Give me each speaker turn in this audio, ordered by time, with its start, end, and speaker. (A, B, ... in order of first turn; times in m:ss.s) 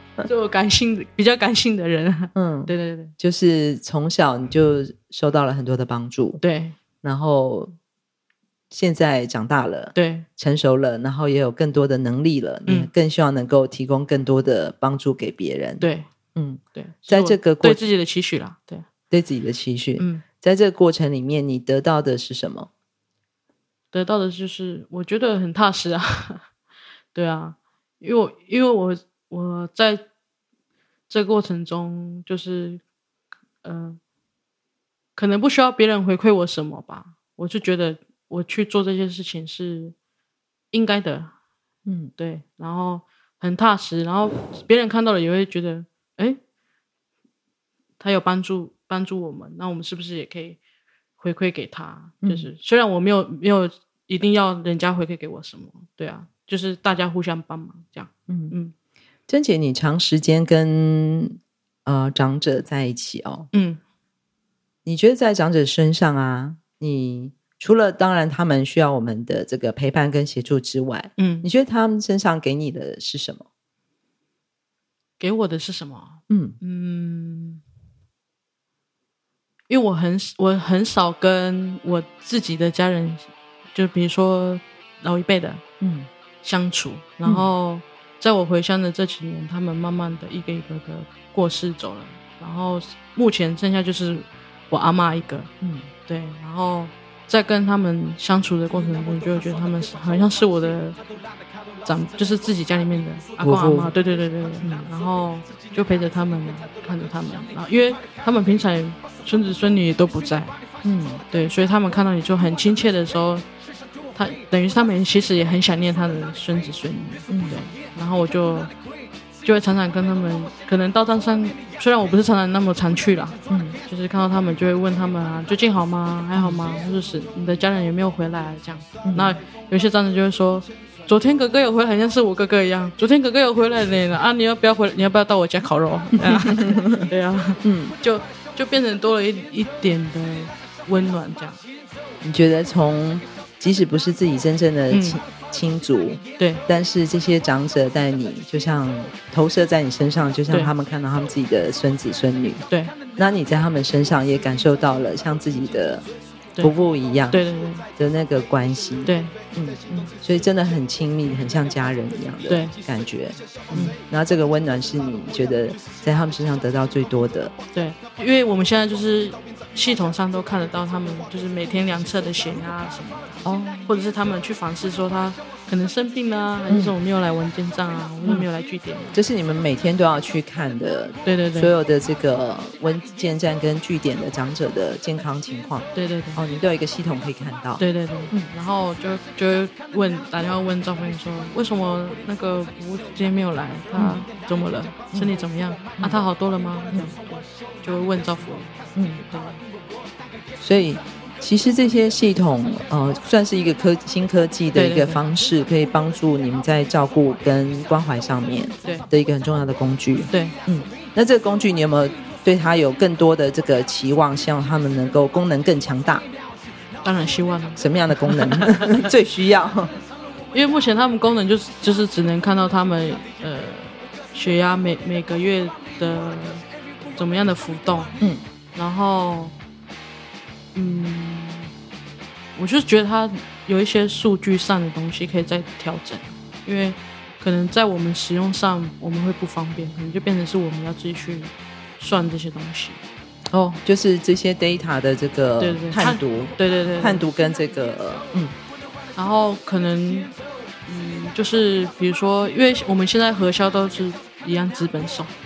0:00.2-0:03.1 A
0:02.3-0:06.4 B
0:06.4-0:06.8 A
0:07.0-0:07.7 B
0:08.7-0:17.8 B
0:09.9-0:10.2 A
0:15.8-0:16.1 A
0:16.8-0:18.8 A
0:19.1-0:22.7 B
0:20.0-0:20.2 A
0:23.9-0:26.4 A
0:27.1-0:30.0 A
0:31.1-0:32.8 A
0:33.6-0:34.0 A
0:35.2-0:39.9 A
0:40.7-0:41.3 A
0:41.8-0:42.1 B
0:42.2-0:46.4 A
0:48.0-0:50.6 A
0:51.2-0:58.7 A
0:52.2-0:52.5 B
0:58.3-0:58.5 B
0:59.3-1:03.5 B
1:03.5-1:03.8 A
1:04.8-1:13.4 B
1:11.2-1:11.5 A
1:15.2-1:17.6 A
1:16.3-1:16.6 B
1:19.7-1:25.6 A
1:25.8-1:26.1 B
1:26.4-1:35.5 A
1:35.6-1:35.9 B
1:36.1-1:41.0 A
1:41.8-1:50.5 A
1:43.4-1:43.9 B
1:44.6-1:44.9 B
1:50.8-1:51.2 B
1:51.3-1:53.4 A
1:54.1-1:58.7 A
1:57.3-1:57.6 B
1:59.4-2:21.6 A
2:03.5-2:03.8 B
2:09.0-2:09.4 B
2:16.2-2:17.1 B
2:17.6-2:17.9 B
2:22.2-2:32.6 B
2:24.9-2:25.2 A
2:26.4-2:26.6 A
2:33.2-2:36.1 B
2:36.6-2:37.4 B
2:37.3-2:37.8 A
2:38.0-2:47.5 B
2:39.0-2:40.1 A
2:42.5-2:42.7 A
2:47.7-2:59.2 A
2:53.4-2:53.9 B
2:56.7-2:56.9 B
2:59.1-3:08.5 B
3:01.2-3:01.7 A
3:05.9-3:06.4 A
3:07.8-3:19.6 A
3:14.0-3:14.2 B
3:19.0-3:19.2 B
3:20.6-3:36.2 B
3:24.7-3:25.2 A
3:30.3-3:30.6 A
3:37.0-3:39.0 A
3:37.8-3:39.9 B
3:40.5-3:48.2 A
3:48.7-3:49.5 A
3:50.7-3:51.7 A
3:52.6-4:03.0 A
4:03.5-4:08.5 B
4:05.6-4:07.2 A
4:09.2-4:10.3 A
4:10.9-4:15.3 A